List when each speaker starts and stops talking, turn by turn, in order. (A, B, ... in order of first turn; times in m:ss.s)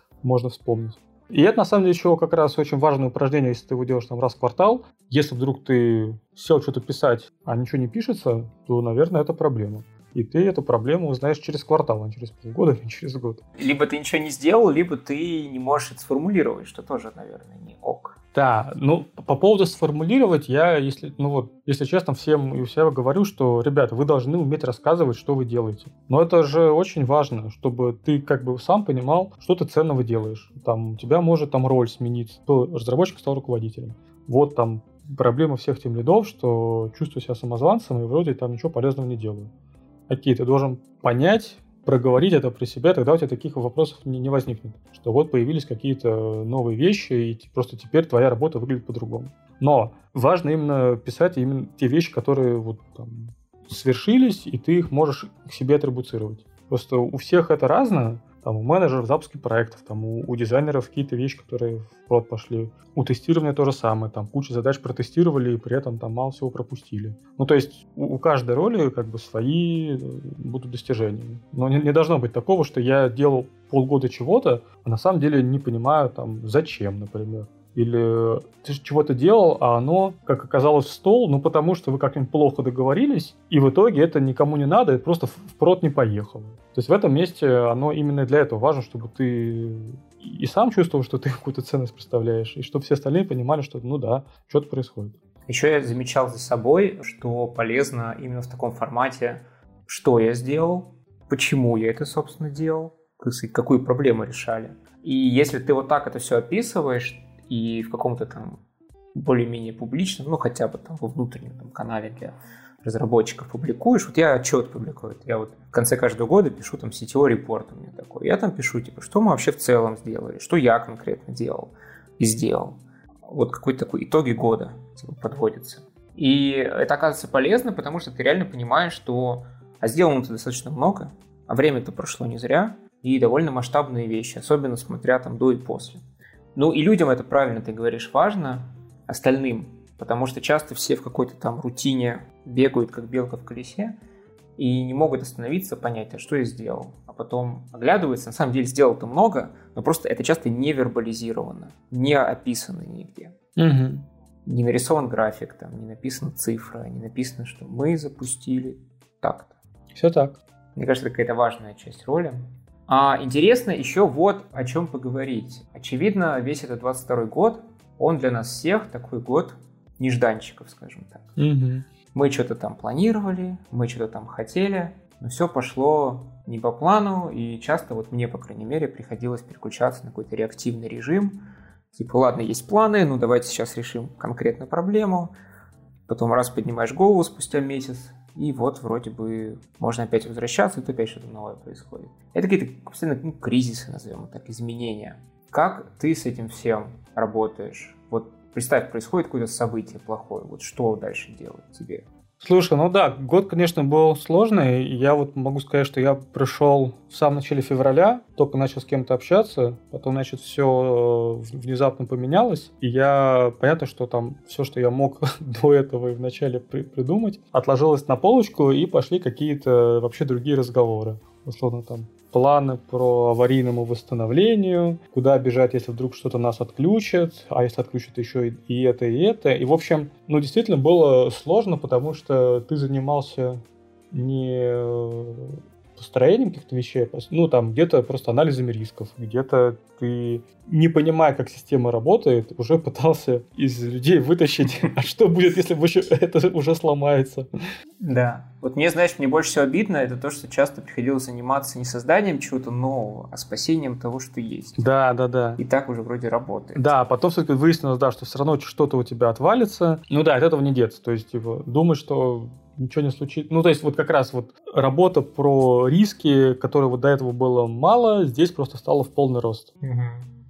0:00.2-0:13.4 A
0:13.6-0:18.2 B
0:18.3-0:39.5 A
0:40.1-1:35.2 A
1:35.5-1:48.6 B
1:49.2-2:16.0 B
2:16.6-2:24.0 B
2:24.6-2:33.4 B
2:33.6-2:34.0 A
2:34.4-2:39.6 B
2:40.0-2:40.4 A
2:40.8-2:51.4 B
2:51.4-2:51.9 A
2:52.1-3:05.3 B
3:06.1-3:22.1 B
3:22.4-4:07.5 A
4:08.0-4:14.8 B
4:14.8-4:15.6 A
4:15.6-4:17.0 B
4:16.8-4:29.7 A
4:29.8-4:30.3 B